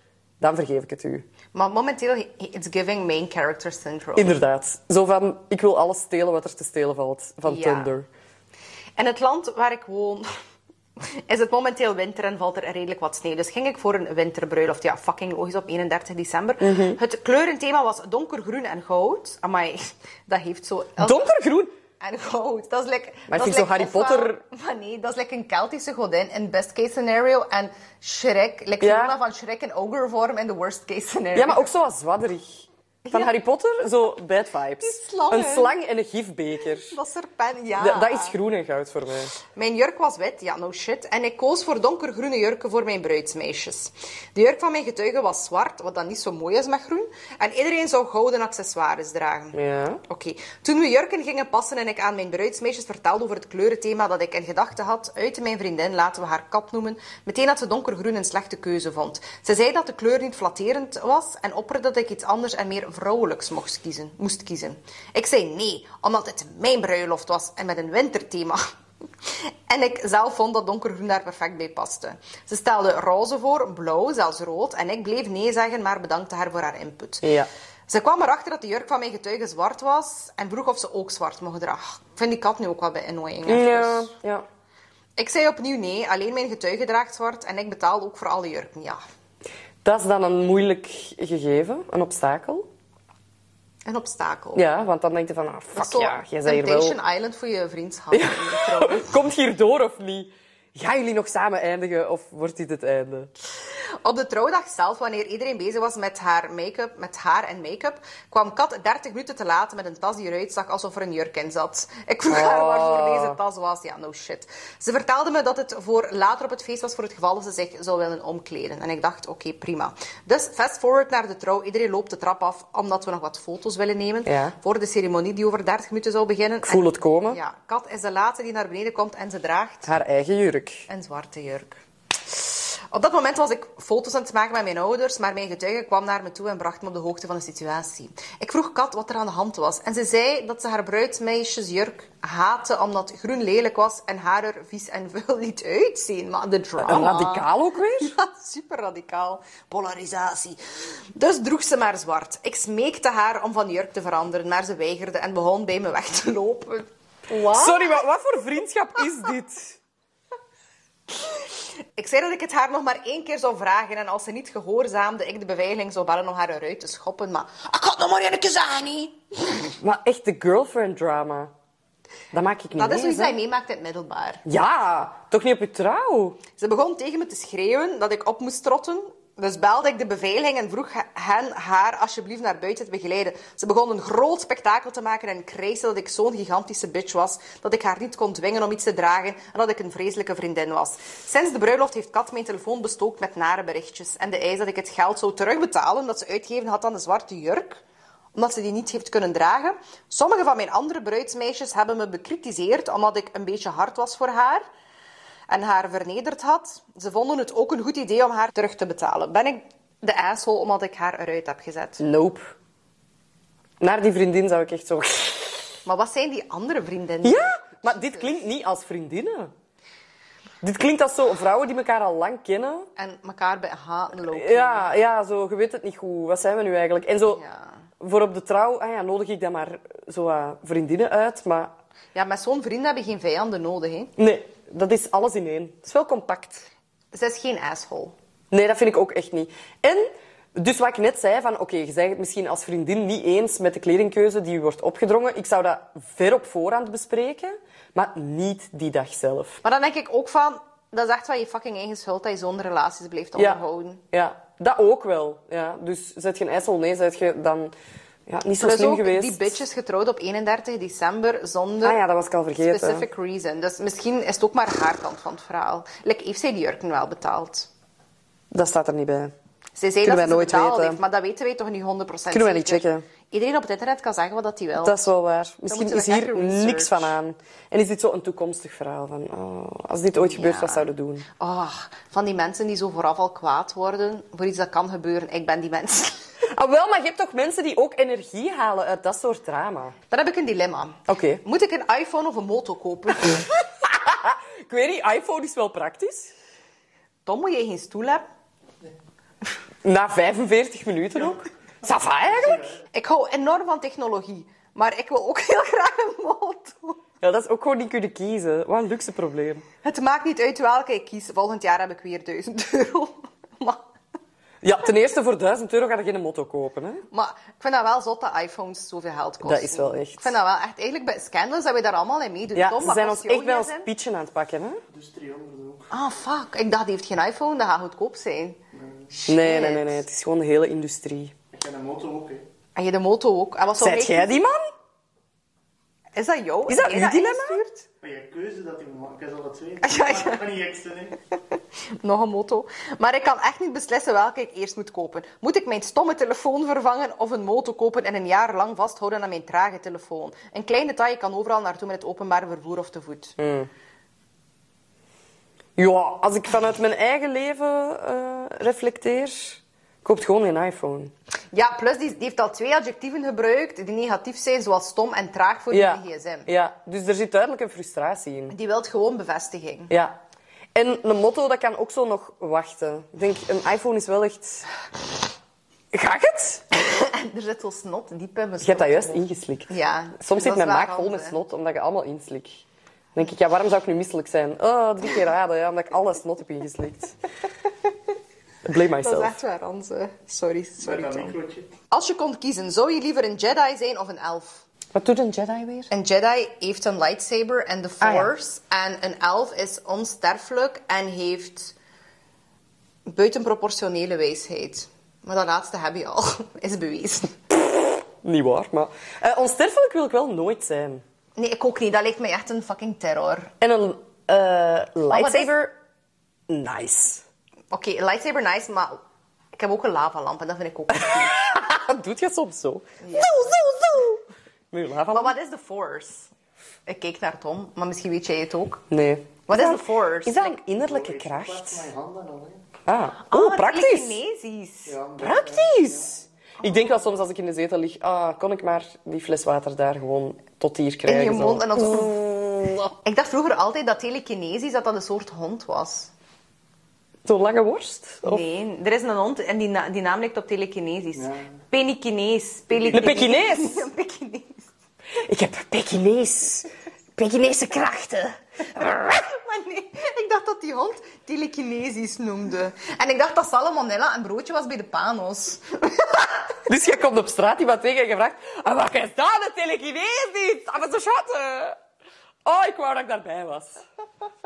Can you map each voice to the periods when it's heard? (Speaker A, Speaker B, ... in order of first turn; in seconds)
Speaker A: 0.4-1.2, 4.2-8.1, 16.6-17.0, 21.0-21.7, 23.3-24.4, 28.8-29.1, 31.3-36.9, 37.8-39.3, 49.5-50.0, 77.2-77.5, 83.5-84.5, 89.8-92.7, 94.5-97.0, 98.1-103.3, 112.3-113.4, 124.2-124.5, 126.7-127.4, 129.8-130.8, 146.8-148.1, 157.3-159.8, 169.8-171.5, 172.3-173.4, 174.4-176.4, 212.0-212.5, 213.8-215.7, 217.2-219.5, 220.6-222.9, 224.3-227.4, 228.0-231.7, 234.2-236.7, 238.5-249.6, 254.1-257.7, 258.3-259.6, 261.8-263.1, 268.5-269.3, 270.0-271.0, 272.3-273.1, 274.8-281.2, 286.5-289.9, 291.1-291.4, 293.3-296.3, 299.8-302.8, 307.2-309.6, 314.6-317.0, 319.4-320.3, 322.5-324.8, 329.3-331.3, 333.8-334.7, 336.7-337.6, 353.4-353.7, 355.8-361.1, 365.7-368.5, 369.9-370.2, 370.7-374.7, 375.9-376.6, 378.6-382.6, 383.1-387.1, 388.6-389.4, 394.9-395.9, 398.0-398.3, 407.5-411.0, 413.6-415.7, 416.5-417.2, 420.9-424.2, 424.7-425.3, 428.9-431.9, 432.9-434.2, 435.2-442.9, 447.2-448.4, 452.9-453.9, 455.2-459.2, 466.7-471.8, 472.4-473.8
Speaker B: 1.5-4.3, 7.4-7.9, 9.0-10.3, 11.0-21.3, 22.0-31.7, 33.0-33.3, 34.8-35.7, 36.9-38.4, 39.5-68.6, 69.2-77.3, 77.9-84.1, 85.2-89.0, 93.8-94.6, 95.7-99.2, 103.7-129.9, 130.9-147.5, 148.0-158.0, 162.0-169.2, 172.7-174.4, 176.6-197.8, 198.3-204.7, 205.5-212.0, 215.8-218.3, 222.9-224.9, 227.3-227.8, 232.1-234.1, 237.1-238.1, 249.6-254.0, 258.6-262.0, 262.6-267.7, 269.8-275.1, 275.7-277.1, 280.2-280.9, 281.4-286.2, 290.1-293.5, 297.2-298.2, 302.9-307.0, 309.8-313.8, 317.1-323.9, 325.9-328.6, 329.1-330.0, 332.8-334.4, 336.1-337.9, 339.8-340.4, 342.0-353.4, 361.5-366.5, 368.5-369.9, 376.7-381.4, 389.0-391.4, 391.9-394.6, 395.9-401.7, 403.1-407.4, 411.4-413.5, 415.1-415.5, 417.7-419.0, 419.5-421.5, 423.0-423.6, 425.1-426.3, 426.9-428.8, 429.5-430.6, 433.3-435.0, 436.6-437.0, 441.1-442.2, 443.0-446.1, 448.2-454.7, 458.8-466.3
Speaker C: 302.4-302.8, 324.9-325.9, 328.7-329.1, 331.5-332.4, 338.0-341.2, 390.8-391.7, 430.7-432.6, 434.9-436.2, 451.1-451.5, 452.7-453.1